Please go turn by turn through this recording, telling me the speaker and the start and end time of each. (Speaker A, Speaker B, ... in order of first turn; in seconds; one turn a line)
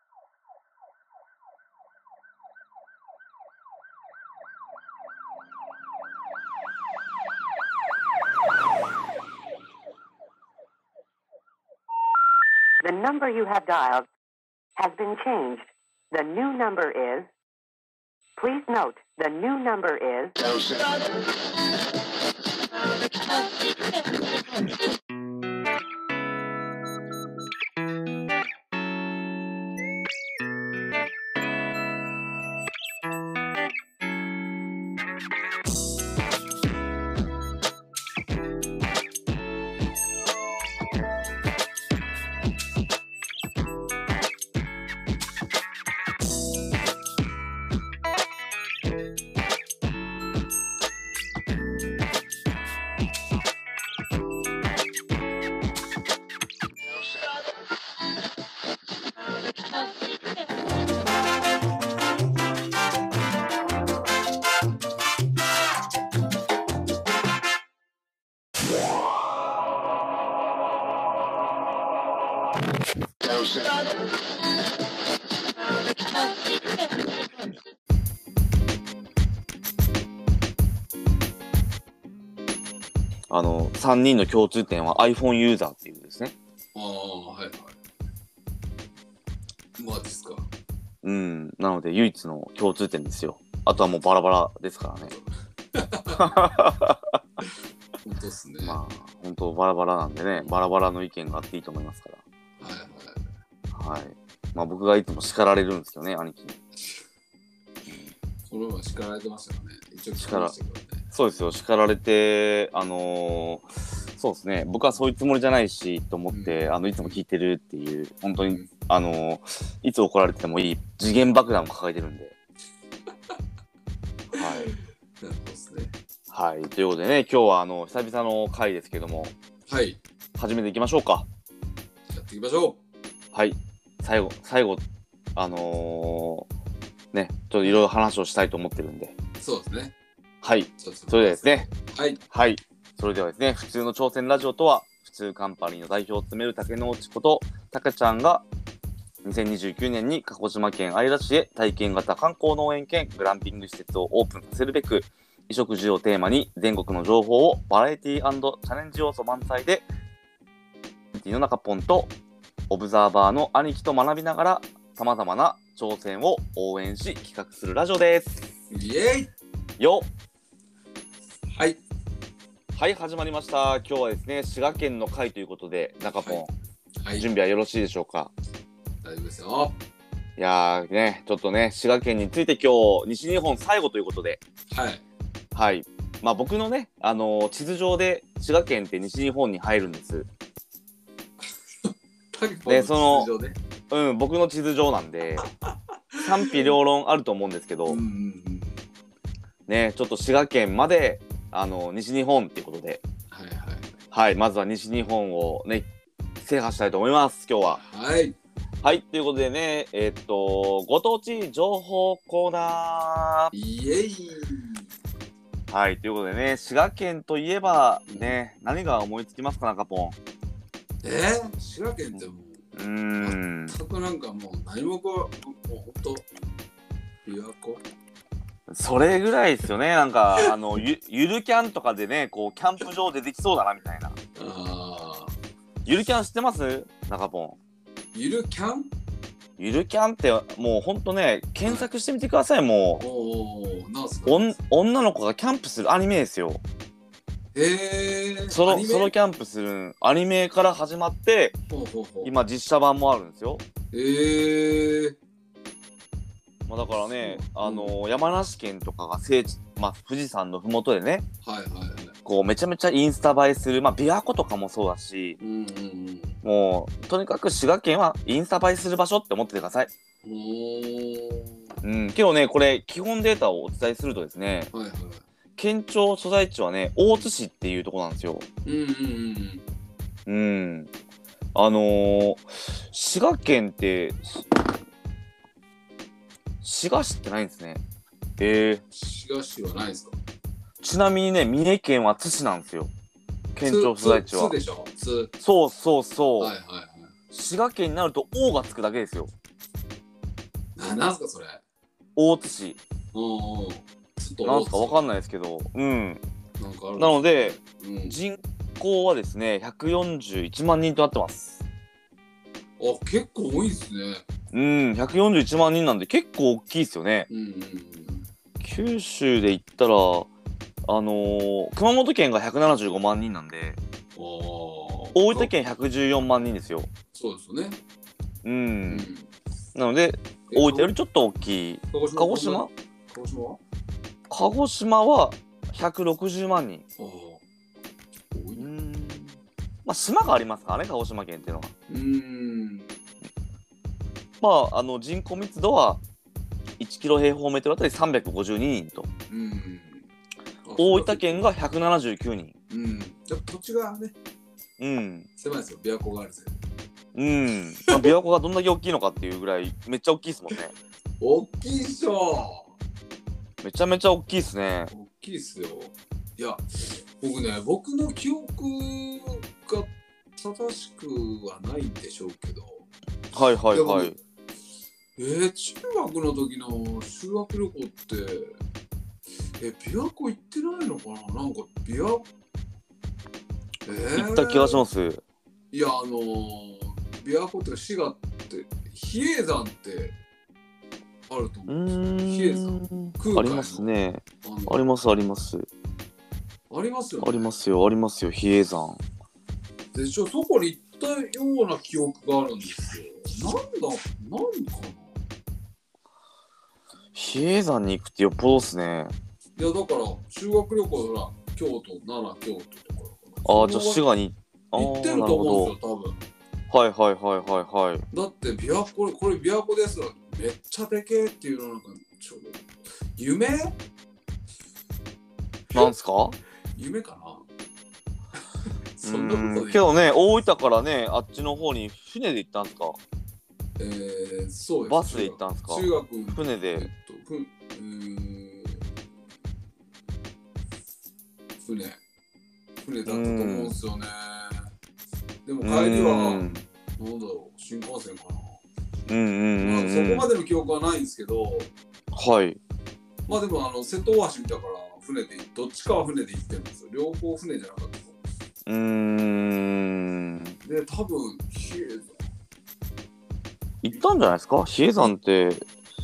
Speaker A: 12.8-14.1
Speaker A: 14.8-17.3
Speaker A: 18.4-20.4
Speaker B: 83.3-86.3
Speaker C: 86.8-87.8
Speaker C: 89.8-90.5
Speaker B: 91.0-95.1
Speaker C: 95.1-96.4
Speaker B: 96.2-97.2
Speaker C: 98.0-98.8
Speaker B: 98.6-102.2
Speaker C: 102.6-103.2
Speaker B: 103.7-106.6
Speaker C: 108.5-111.1
Speaker B: 110.2-110.5
Speaker B: 111.1-113.7
Speaker B: 114.2-122.3
Speaker C: 116.3-117.2
Speaker C: 118.5-118.7
Speaker B: 124.3-124.7
Speaker C: 124.3-126.0
Speaker B: 126.3-129.3
Speaker C: 129.7-130.0
Speaker B: 130.4-131.3
Speaker C: 132.1-132.8
Speaker B: 133.3-134.8
Speaker B: 135.4-136.5
Speaker B: 137.1-139.2
Speaker C: 139.4-139.9
Speaker B: 140.4-141.7
Speaker C: 140.8-142.2
Speaker B: 142.3-148.4
Speaker B: 149.2-159.8
Speaker B: 161.1-162.1
Speaker B: 162.7-168.3
Speaker C: 168.7-169.3
Speaker B: 169.8-170.1
Speaker C: 171.6-171.8
Speaker B: 172.7-176.5
Speaker C: 176.2-177.3
Speaker B: 177.2-178.3
Speaker C: 179.0-179.8
Speaker B: 180.4-184.4
Speaker C: 184.7-185.0
Speaker B: 185.5-190.3
Speaker C: 191.8-193.6
Speaker B: 192.7-193.3
Speaker B: 193.9-195.5
Speaker C: 196.1-196.8
Speaker B: 196.2-198.0
Speaker C: 197.9-198.8
Speaker B: 199.7-203.0
Speaker C: 203.3-203.9
Speaker B: 204.1-205.9
Speaker B: 206.4-207.8
Speaker C: 207.7-208.4
Speaker B: 208.8-213.5
Speaker C: 213.5-214.9
Speaker B: 215.7-220.2
Speaker C: 218.1-218.4
Speaker C: 221.0-222.6
Speaker B: 222.8-223.8
Speaker C: 223.2-226.3
Speaker C: 227.2-227.8
Speaker B: 228.7-234.2
Speaker C: 234.4-235.4
Speaker B: 235.9-237.6
Speaker C: 238.1-238.9
Speaker B: 239.6-243.0
Speaker C: 241.6-241.9
Speaker C: 243.0-244.5
Speaker B: 244.2-246.6
Speaker C: 247.6-249.1
Speaker B: 248.5-251.6
Speaker C: 251.7-252.3
Speaker B: 252.2-253.6
Speaker C: 253.9-255.2
Speaker B: 256.7-261.3
Speaker C: 257.0-258.0
Speaker C: 261.4-262.1
Speaker B: 262.2-265.4
Speaker C: 265.4-266.4
Speaker B: 266.4-269.9
Speaker C: 270.2-271.7
Speaker B: 271.8-274.7
Speaker C: 274.7-275.3
Speaker B: 275.6-278.5
Speaker C: 278.6-279.6
Speaker B: 280.3-280.9
Speaker B: 281.6-284.5
Speaker B: 286.6-287.8
Speaker B: 288.4-288.8
Speaker C: 288.9-290.2
Speaker B: 290.8-292.9
Speaker B: 293.6-294.6
Speaker C: 293.6-295.3
Speaker B: 295.4-296.5
Speaker C: 296.4-297.1
Speaker B: 297.3-299.3
Speaker C: 300.8-301.6
Speaker B: 302.2-302.8
Speaker C: 303.1-305.0
Speaker B: 304.4-306.2
Speaker C: 306.6-308.2
Speaker B: 307.0-311.6
Speaker C: 312.8-314.2
Speaker B: 314.5-317.3
Speaker C: 317.3-318.3
Speaker B: 318.6-320.3
Speaker B: 320.9-323.8
Speaker C: 324.2-325.5
Speaker B: 325.1-326.9
Speaker C: 327.1-327.8
Speaker B: 328.4-329.1
Speaker C: 328.9-329.3
Speaker B: 329.8-332.7
Speaker C: 330.5-330.9
Speaker C: 331.9-333.6
Speaker B: 334.3-336.8
Speaker C: 337.0-337.4
Speaker C: 338.3-338.7
Speaker B: 338.6-341.7
Speaker C: 341.9-342.9
Speaker B: 344.4-346.0
Speaker B: 346.8-349.1
Speaker C: 349.3-350.1
Speaker C: 350.6-351.5
Speaker B: 350.8-352.6
Speaker C: 352.7-354.1
Speaker B: 354.8-355.3
Speaker C: 355.4-356.6
Speaker B: 357.1-360.7
Speaker C: 361.2-362.7
Speaker B: 363.6-364.9
Speaker C: 364.9-372.9
Speaker B: 373.3-374.1
Speaker C: 373.7-374.2
Speaker C: 375.2-378.6
Speaker C: 379.6-382.3
Speaker C: 383.9-384.8
Speaker B: 384.2-385.2
Speaker C: 385.7-390.2
Speaker C: 391.3-394.8
Speaker B: 391.7-395.7
Speaker C: 396.7-397.6
Speaker B: 397.2-399.0
Speaker C: 399.9-405.2
Speaker B: 407.1-409.1
Speaker C: 409.6-414.1
Speaker B: 413.4-415.7
Speaker C: 414.8-416.2
Speaker B: 416.7-418.1
Speaker C: 418.1-422.6
Speaker C: 423.2-423.8
Speaker B: 425.7-426.4
Speaker C: 426.8-427.5
Speaker C: 429.0-429.9
Speaker B: 429.0-433.0
Speaker C: 433.8-438.9
Speaker B: 434.9-436.9
Speaker C: 441.6-442.0
Speaker C: 442.9-444.7
Speaker B: 443.1-443.8
Speaker C: 445.5-446.4
Speaker B: 445.6-446.6
Speaker C: 447.0-448.6
Speaker B: 449.1-450.3
Speaker C: 449.6-451.7
Speaker B: 452.1-452.6
Speaker C: 453.3-458.2
Speaker B: 458.7-460.6
Speaker C: 460.6-462.2
Speaker B: 463.8-465.6